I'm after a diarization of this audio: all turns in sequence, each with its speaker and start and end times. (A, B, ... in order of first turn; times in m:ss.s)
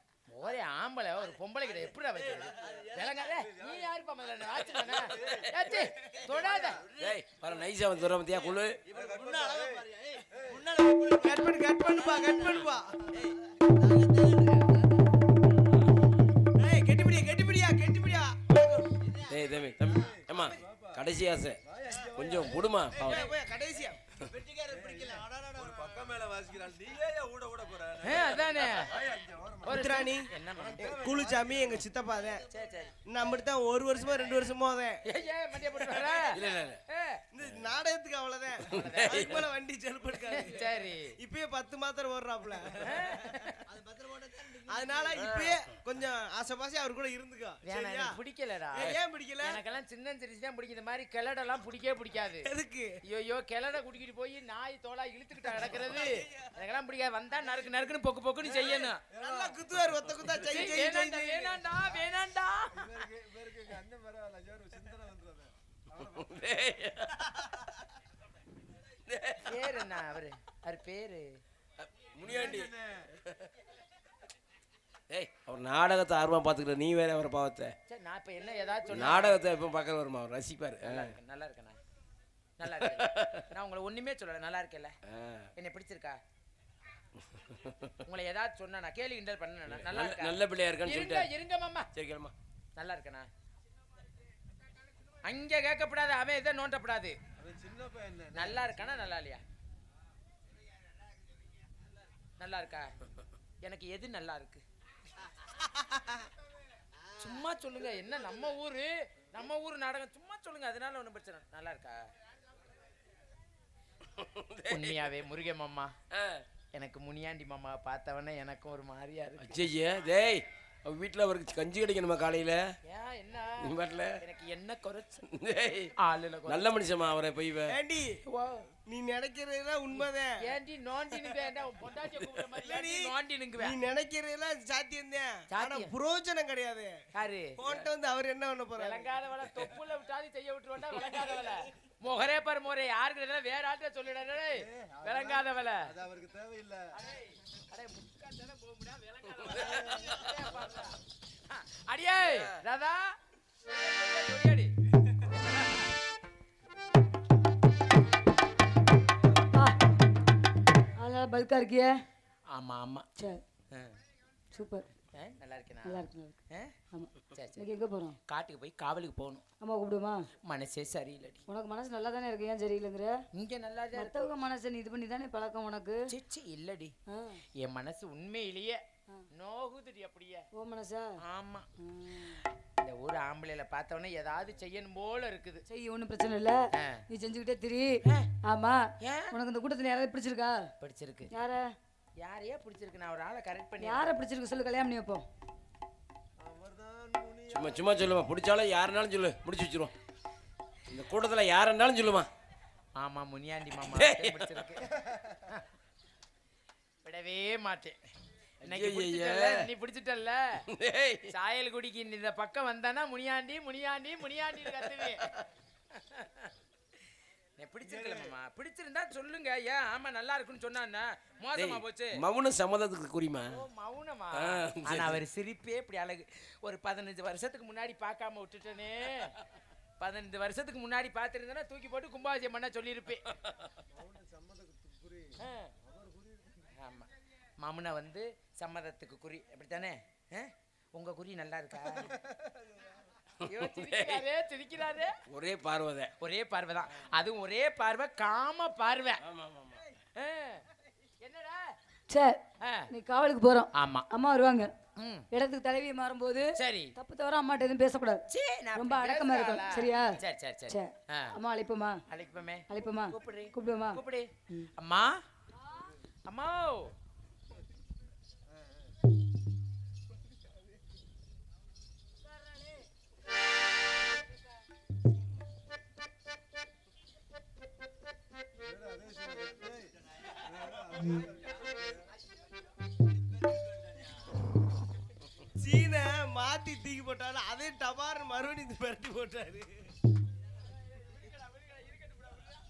0:00.3-0:06.9 A
0:05.2-0:05.4 B
0:06.9-0:08.8 C
0:08.9-0:10.6 B
0:10.9-0:13.1 D
0:16.6-0:18.6 D
0:19.3-0:21.6 C
0:19.9-0:21.0 B
0:21.6-0:22.9 B
0:22.1-0:23.3 C
0:23.0-0:24.0 D
0:24.6-0:29.9 B
0:28.0-0:29.0 A
0:29.6-0:31.0 A
0:29.7-0:32.4 D
0:30.5-0:31.7 B
0:32.5-0:32.9 A
0:33.0-0:35.0 D
0:35.1-0:37.2 A
0:35.9-0:36.2 D
0:36.3-0:36.8 C
0:37.3-0:43.4 D
0:38.7-0:39.4 A
0:38.8-0:39.4 C
0:40.3-0:41.1 A
0:42.9-0:43.5 A
0:44.4-0:48.2 D
0:45.1-0:45.5 C
0:47.6-0:52.5 A
0:48.7-0:49.6 D
0:52.4-0:52.9 D
0:53.0-0:59.0 A
0:58.5-1:01.6 D
0:59.1-0:59.6 B
1:00.4-1:03.0 A
1:02.7-1:06.2 B
1:06.0-1:07.2 C
1:09.0-1:09.5 C
1:09.5-1:11.2 A
1:11.8-1:13.5 C
1:12.2-1:13.0 B
1:15.1-1:17.7 C
1:17.9-1:19.4 A
1:18.9-1:21.1 C
1:20.8-1:21.8 A
1:22.6-1:24.9 A
1:22.8-1:23.4 C
1:25.1-1:25.5 C
1:25.6-1:26.2 A
1:27.4-1:27.8 C
1:28.0-1:31.9 A
1:29.7-1:31.3 C
1:31.9-1:32.3 C
1:32.8-1:33.3 A
1:35.2-1:37.2 A
1:37.4-1:38.8 B
1:38.3-1:39.4 A
1:42.4-1:42.9 A
1:43.6-1:44.6 A
1:47.2-1:52.0 A
1:54.2-1:55.1 C
1:54.7-1:55.9 A
1:56.1-1:56.4 C
1:56.7-1:59.7 A
1:59.4-2:02.6 C
2:02.9-2:05.2 A
2:03.6-2:04.2 C
2:05.3-2:05.9 C
2:06.0-2:06.8 A
2:06.4-2:07.8 C
2:07.7-2:08.2 D
2:08.3-2:08.6 A
2:08.9-2:10.4 D
2:09.9-2:13.8 A
2:12.6-2:17.0 D
2:15.5-2:15.9 A
2:17.2-2:17.9 A
2:17.6-2:19.1 D
2:18.8-2:25.9 A
2:24.6-2:26.9 B
2:27.0-2:34.7 A
2:29.9-2:30.2 C
2:35.5-2:35.8 A
2:41.0-2:42.0 E
2:42.5-2:43.1 A
2:44.5-2:44.9 E
2:45.2-2:46.7 A
2:45.8-2:46.4 E
2:46.9-2:48.2 E
2:47.2-2:47.6 A
2:48.3-2:49.4 A
2:49.6-2:50.3 E
2:50.4-2:51.4 A
2:51.5-2:53.2 E
2:53.4-2:54.3 A
2:53.9-2:56.1 E
2:56.1-2:56.9 A
2:57.1-2:57.4 E
2:57.6-2:58.8 A
2:59.3-3:00.4 A
3:00.5-3:01.2 E
3:01.3-3:05.6 A
3:01.8-3:02.2 E
3:05.7-3:10.7 E
3:09.0-3:09.3 A
3:10.8-3:11.3 A
3:11.3-3:11.7 E
3:12.2-3:14.1 A
3:13.8-3:15.2 E
3:16.4-3:17.8 B
3:17.5-3:19.9 C
3:20.9-3:22.3 C
3:23.0-3:24.9 A
3:23.8-3:24.7 C
3:27.0-3:28.0 A
3:28.6-3:29.7 C
3:28.6-3:30.6 A
3:30.7-3:31.3 C
3:31.3-3:35.3 A
3:35.9-3:36.5 A
3:37.6-3:42.2 A
3:41.5-3:43.6 C
3:43.5-3:49.3 A
3:44.3-3:45.2 C
3:50.0-3:53.2 A
3:53.9-3:56.7 B
3:55.4-3:55.7 A
3:56.8-4:02.2 A
4:02.2-4:02.9 B
4:03.4-4:04.2 C
4:03.4-4:05.1 A
4:05.3-4:06.1 C
4:06.2-4:09.2 A
4:09.2-4:09.8 C
4:10.2-4:10.6 A
4:11.2-4:11.7 A
4:12.1-4:14.7 E
4:13.8-4:14.1 A
4:15.0-4:15.3 A
4:15.3-4:18.2 E
4:16.6-4:16.9 A
4:18.3-4:21.3 A
4:18.7-4:22.0 E
4:22.1-4:25.2 A
4:22.7-4:24.0 E
4:26.2-4:26.9 A
4:38.6-4:39.9 B
4:40.4-4:41.7 B
4:45.6-4:49.9 D
4:51.0-4:52.5 A